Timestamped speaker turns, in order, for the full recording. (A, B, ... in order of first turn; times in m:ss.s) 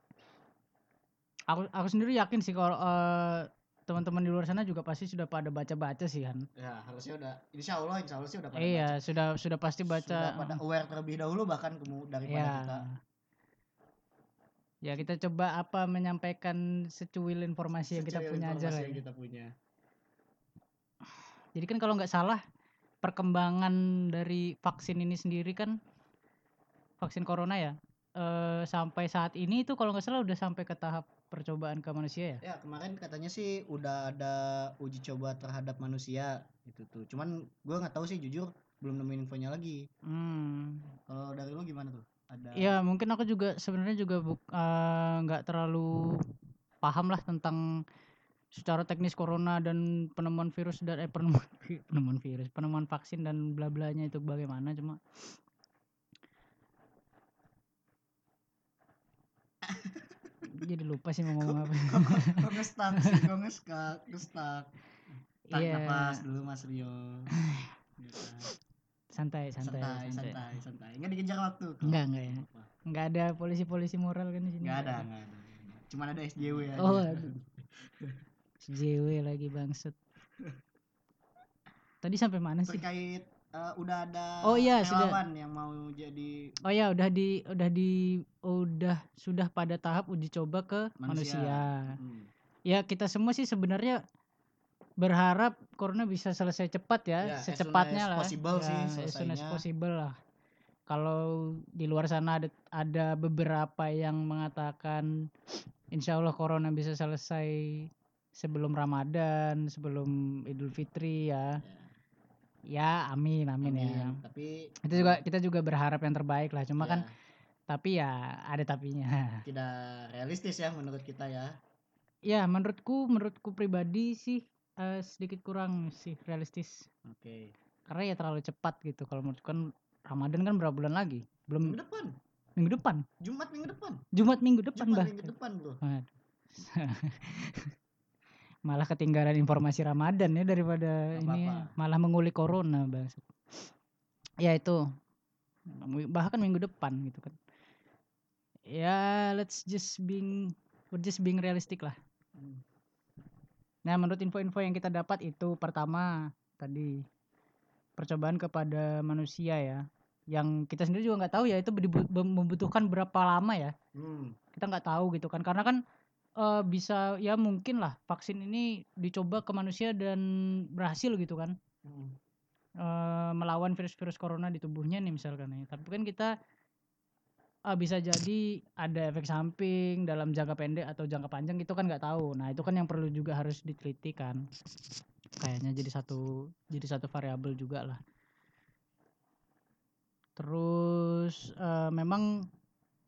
0:01.5-0:06.4 A
0:06.6-0:09.0 B
0:08.6-0:10.6 A
0:09.9-0:12.9 B
0:12.3-0:13.0 A
0:14.8-0:19.0 A
0:17.9-0:19.5 B
0:21.6-0:22.4 A
0:23.0-0:25.7 A
0:27.0-0:32.4 A
0:32.4-0:39.9 B
0:40.1-0:40.9 A
0:41.1-0:42.8 B
0:42.6-0:46.2 A
0:46.8-0:47.6 A
0:48.6-0:55.0 A
0:59.7-1:00.0 B
1:00.5-1:03.3 A
1:01.4-1:04.7 B
1:05.5-1:07.3 B
1:05.5-1:06.2 A
1:08.0-1:08.5 B
1:09.1-1:10.4 A
1:09.6-1:12.7 B
1:11.8-1:12.4 A
1:12.9-1:15.0 A
1:14.6-1:17.4 B
1:16.8-1:17.4 A
1:18.6-1:19.9 A
1:22.0-1:22.8 A
1:22.7-1:26.6 B
1:24.4-1:25.2 A
1:26.6-1:32.0 A
1:31.0-1:32.3 B
1:32.7-1:34.0 A
1:35.0-1:40.2 A
1:37.2-1:39.6 B
1:40.9-1:45.1 A
1:45.9-1:51.6 A
1:51.6-1:51.9 B
1:52.7-1:54.2 A
1:53.6-1:55.2 B
1:54.9-1:57.1 A
1:56.8-1:57.1 B
1:57.7-1:59.4 A
1:59.5-2:01.6 B
2:02.3-2:06.9 A
2:07.0-2:07.5 B
2:07.9-2:11.8 A
2:11.6-2:12.2 B
2:12.6-2:13.0 A
2:13.2-2:14.0 B
2:14.1-2:15.3 A
2:14.7-2:15.8 B
2:15.8-2:17.7 A
2:18.7-2:23.3 A
2:21.1-2:21.7 B
2:24.4-2:24.8 A
2:25.7-2:27.4 A
2:28.7-2:32.0 A
2:32.4-2:32.6 B
2:33.9-2:37.0 A
2:38.0-2:43.7 A
2:44.0-2:44.4 B
2:44.6-2:45.8 A
2:46.4-2:50.2 A
2:50.8-2:51.6 A
2:51.9-2:52.2 B
2:52.8-2:56.3 A
2:57.7-3:04.4 A
3:05.4-3:08.0 A
3:10.4-3:12.5 A